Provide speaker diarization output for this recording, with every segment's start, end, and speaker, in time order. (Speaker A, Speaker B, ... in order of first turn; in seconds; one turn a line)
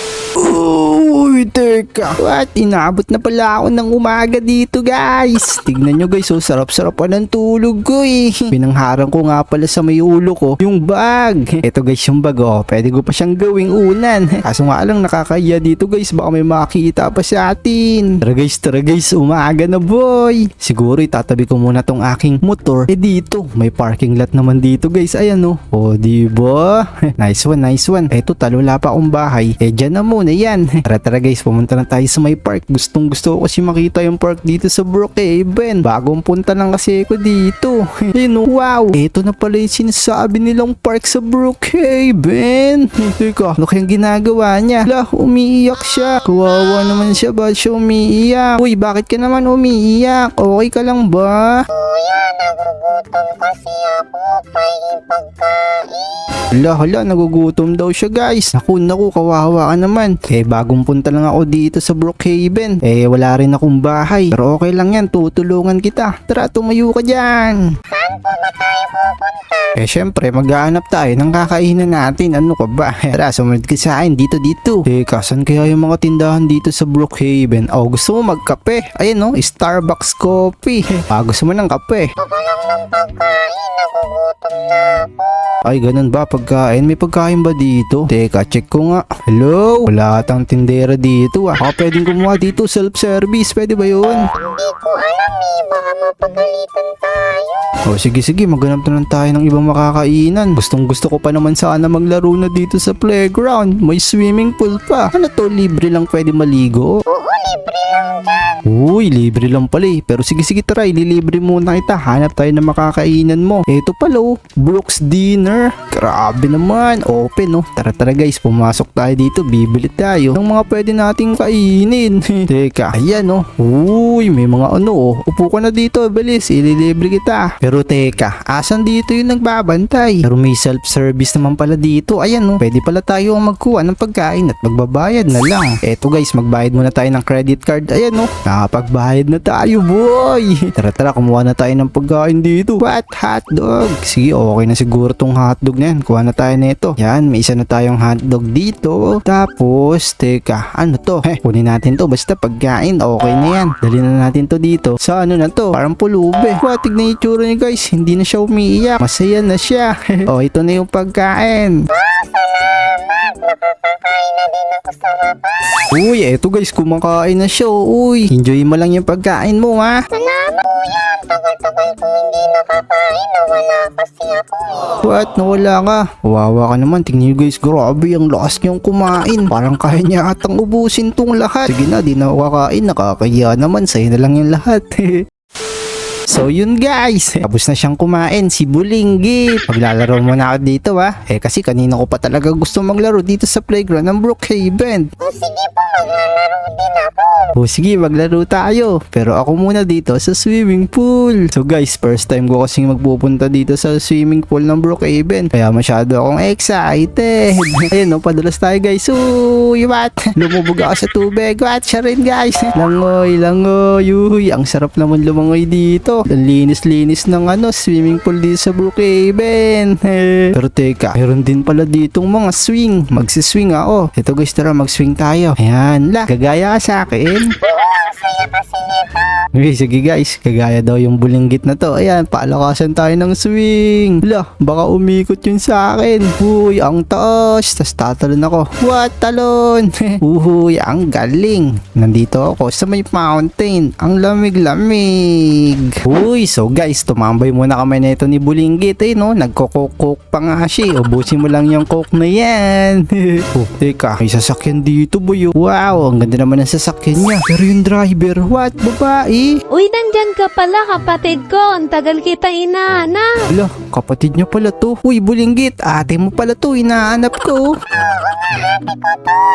Speaker A: 0.3-51.5
Speaker B: 51.7-56.2
Speaker A: 56.5-67.7
Speaker B: 68.0-69.6
Speaker A: 69.7-82.1
Speaker B: 82.2-85.3
Speaker A: 85.6-94.3
Speaker B: 94.3-97.7
Speaker A: 97.8-107.0
Speaker B: 107.1-108.5
Speaker A: 108.6-161.8
Speaker B: 161.9-165.5
Speaker A: 165.9-170.1
Speaker B: 170.2-174.8
Speaker A: 175.0-185.2
Speaker A: 186.3-195.1
Speaker B: 195.2-197.4
Speaker A: 197.5-227.6
Speaker B: 227.7-229.1
Speaker A: 229.5-259.6
Speaker C: 259.7-263.4
Speaker A: 263.5-267.7
Speaker C: 268.5-269.3